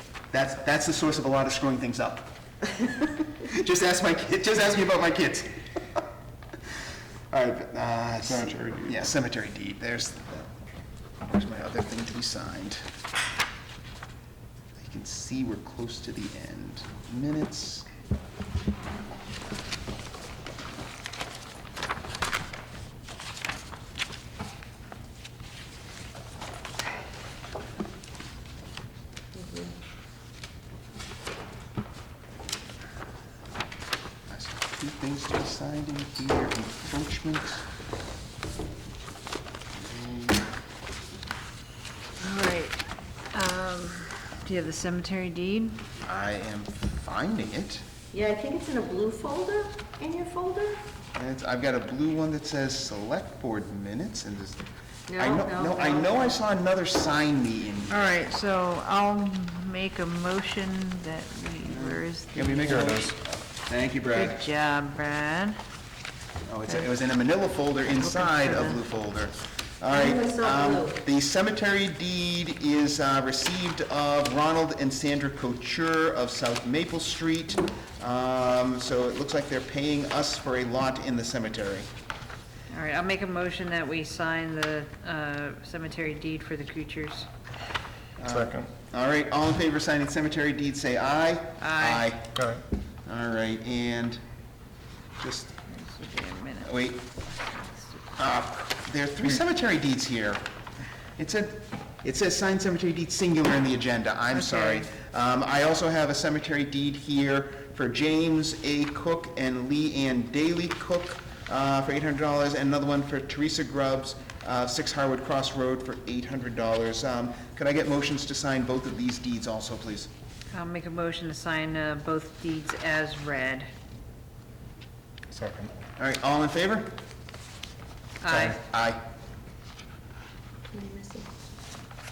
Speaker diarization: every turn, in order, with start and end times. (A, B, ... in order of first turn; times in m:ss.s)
0:00.3-0:05.7 A
0:07.3-0:10.5 A
0:08.2-0:09.0 B
0:11.2-0:12.8 A
0:14.8-0:17.9 A
0:29.3-0:29.8 C
0:34.3-0:37.7 A
0:39.8-0:40.4 A
0:42.2-0:42.8 D
0:43.3-0:45.8 D
0:46.0-0:47.8 A
0:48.1-0:50.8 C
0:51.2-0:54.7 A
0:55.1-0:56.4 C
0:55.2-0:58.0 A
0:57.9-1:03.1 D
1:01.7-1:04.5 A
1:04.1-1:05.6 D
1:06.4-1:21.9 A
1:07.9-1:08.8 D
1:09.9-1:11.0 C
1:22.7-1:27.3 D
1:28.2-1:32.4 A
1:28.2-1:28.7 B
1:31.6-1:32.1 D
1:32.3-1:32.6 B
1:33.1-1:34.2 A
1:35.2-1:35.5 A
1:35.7-1:36.7 D
1:36.6-1:37.0 A
1:37.3-1:38.0 D
1:38.2-1:40.4 A
1:41.2-2:00.1 A
1:44.3-1:44.9 D
2:00.5-2:03.7 D
2:05.3-2:05.7 B
2:06.0-2:07.0 A
2:08.2-2:08.6 D
2:08.2-2:09.0 A
2:10.7-2:11.3 C